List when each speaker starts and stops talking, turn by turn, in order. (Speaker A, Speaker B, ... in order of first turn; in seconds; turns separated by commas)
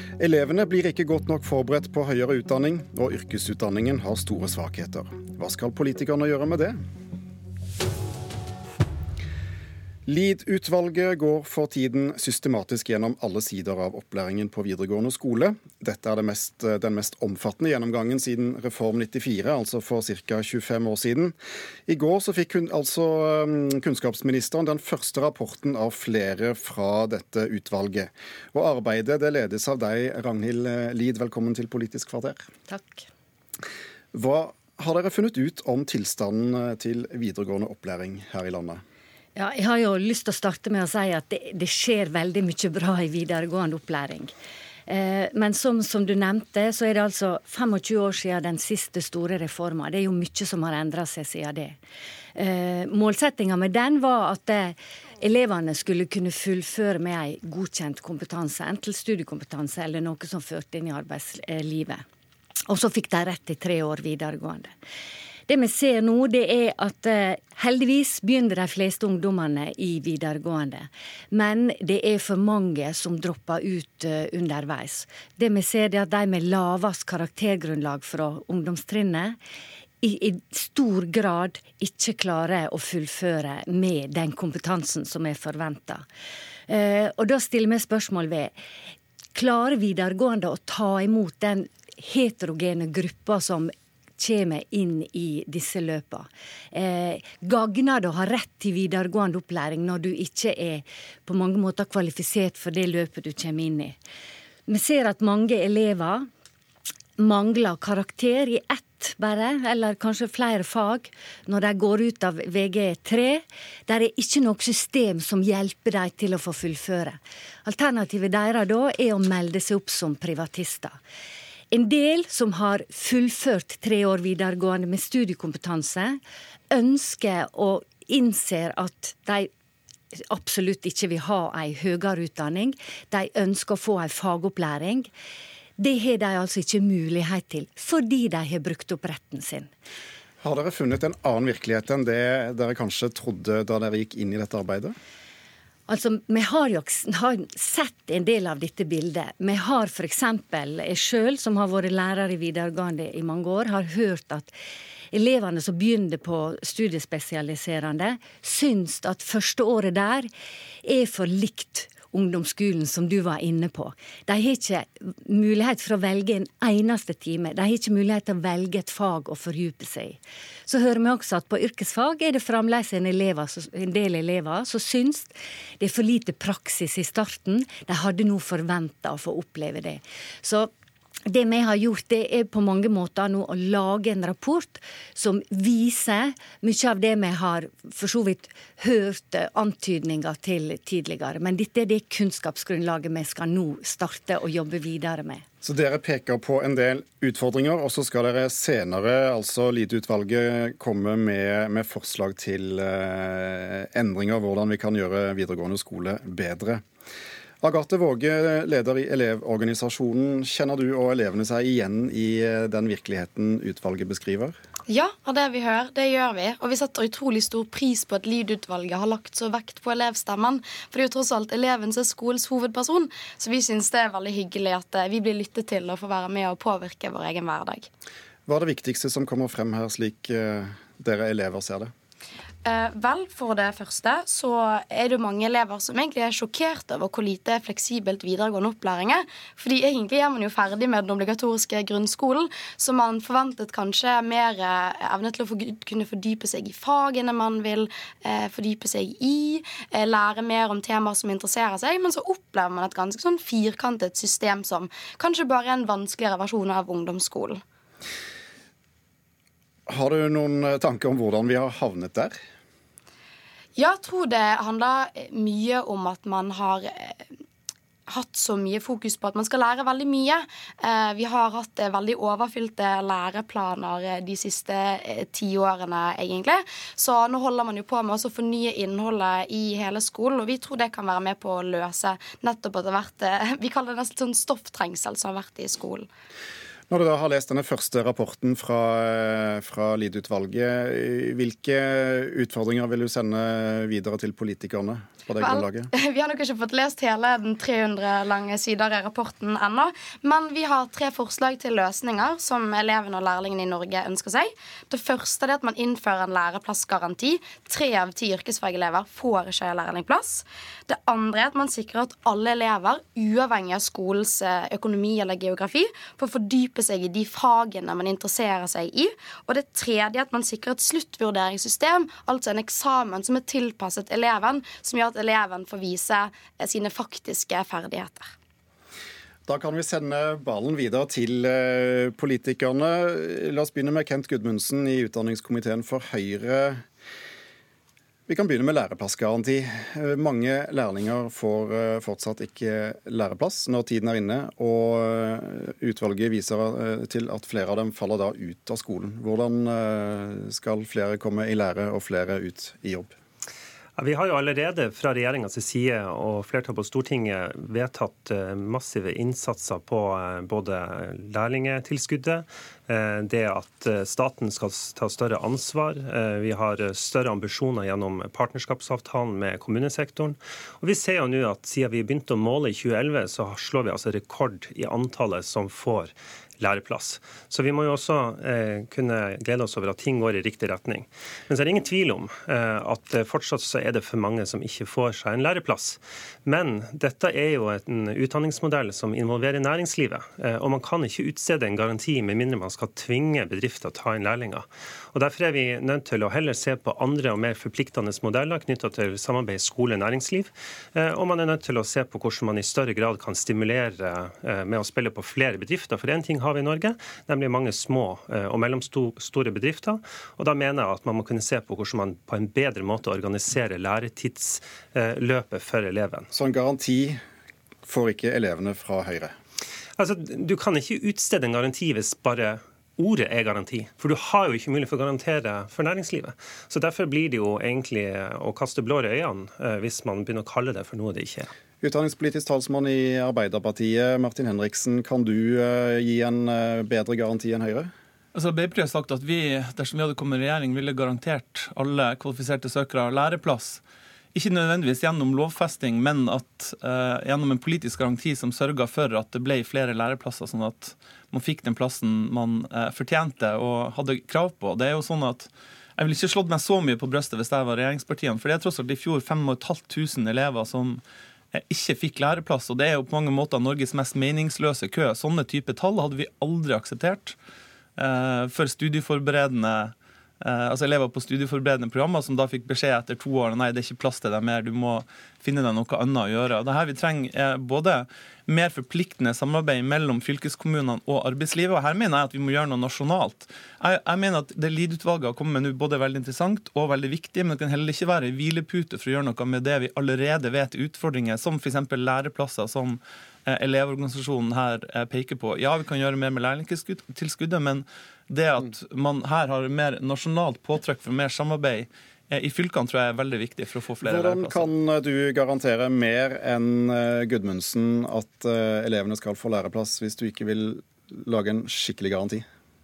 Speaker A: 0.2-6.7, Speaker A: 10.1-21.3, Speaker A: 21.9-32.4, Speaker B: 32.7-33.0, Speaker A: 34.1-38.8, Speaker B: 39.4-44.3, Speaker B: 44.9-51.8, Speaker B: 52.3-62.0, Speaker B: 62.7-64.7, Speaker B: 65.5-79.4, Speaker B: 80.0-86.0, Speaker B: 86.7-88.5, Speaker B: 89.3-104.0, Speaker B: 104.7-106.3, Speaker B: 107.2-121.0, Speaker B: 121.7-126.2, Speaker B: 126.7-129.5, Speaker B: 130.3-135.1, Speaker B: 135.8-139.7, Speaker A: 140.4-144.9, Speaker B: 145.9-154.5, Speaker B: 155.1-160.3, Speaker B: 160.8-180.7, Speaker B: 181.3-195.4, Speaker A: 195.6-206.8, Speaker A: 207.6-214.6, Speaker C: 214.9-227.9, Speaker A: 228.5-231.9, Speaker C: 232.7-257.6, Speaker A: 259.9-262.3, Speaker C: 263.8-267.2, Speaker C: 268.1-286.1, Speaker A: 286.9-295.9, Speaker C: 295.4-328.3, Speaker A: 329.5-336.8, Speaker A: 338.3-353.1, Speaker D: 354.0-416.3, Speaker A: 416.3-417.2, Speaker A: 417.9-419.3, Speaker D: 420.0-431.5, Speaker A: 431.8-437.9, Speaker E: 438.3-443.8, Speaker E: 444.3-461.0, Speaker E: 461.5-467.4, Speaker E: 468.0-504.7, Speaker A: 504.0-512.4